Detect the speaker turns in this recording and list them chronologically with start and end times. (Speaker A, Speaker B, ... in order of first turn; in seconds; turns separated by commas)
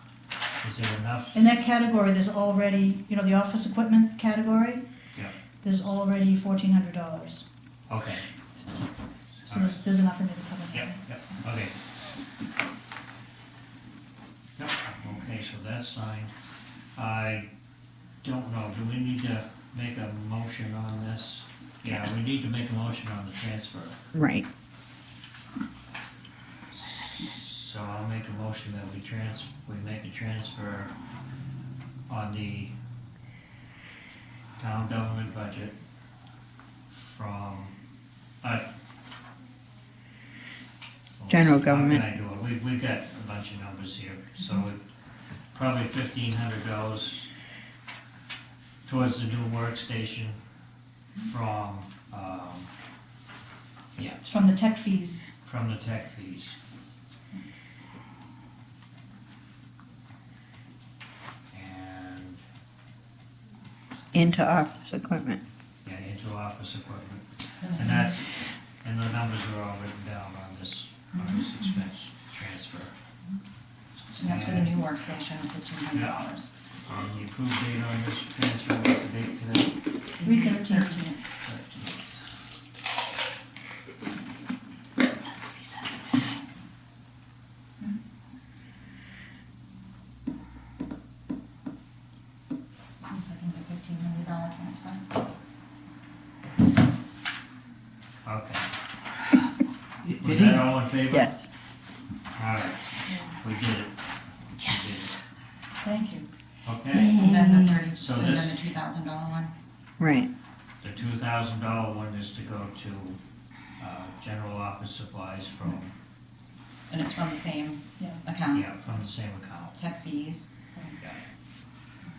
Speaker A: 0.6-1.4, Speaker B: 1.3-4.8, Speaker B: 5.6-7.4, Speaker A: 7.9-8.2, Speaker A: 9.5-9.8, Speaker B: 9.5-11.0, Speaker A: 10.7-11.8, Speaker A: 14.6-16.3, Speaker A: 16.9-17.4, Speaker A: 18.2-24.0, Speaker C: 24.1-24.4, Speaker A: 26.7-30.9, Speaker A: 32.1-32.8, Speaker A: 34.6-35.8, Speaker A: 36.9-37.7, Speaker A: 38.4-38.7, Speaker A: 41.2-44.8, Speaker C: 41.3-42.0, Speaker A: 45.5-47.3, Speaker A: 48.8-50.4, Speaker A: 51.3-52.7, Speaker A: 54.0-54.2, Speaker B: 54.2-55.3, Speaker A: 55.4-56.5, Speaker A: 61.5-62.4, Speaker C: 64.1-65.4, Speaker A: 65.8-68.3, Speaker D: 67.6-68.2, Speaker A: 68.8-72.9, Speaker D: 71.1-71.5, Speaker A: 73.9-74.8, Speaker D: 74.2-76.5, Speaker A: 75.9-76.2, Speaker A: 76.8-79.8, Speaker D: 80.2-81.2, Speaker B: 80.2-81.1, Speaker A: 81.4-82.2, Speaker D: 93.0-95.0, Speaker A: 98.2-98.6, Speaker A: 100.1-101.4, Speaker C: 101.1-101.4, Speaker A: 102.3-103.9, Speaker A: 104.6-105.2, Speaker D: 104.6-105.2, Speaker B: 105.8-106.3, Speaker A: 106.6-107.2, Speaker C: 106.9-107.7, Speaker D: 107.1-109.5, Speaker A: 107.9-108.5, Speaker C: 110.0-110.3, Speaker A: 110.8-113.2, Speaker A: 113.8-115.9, Speaker D: 116.9-118.7, Speaker A: 118.5-119.8, Speaker D: 119.7-120.9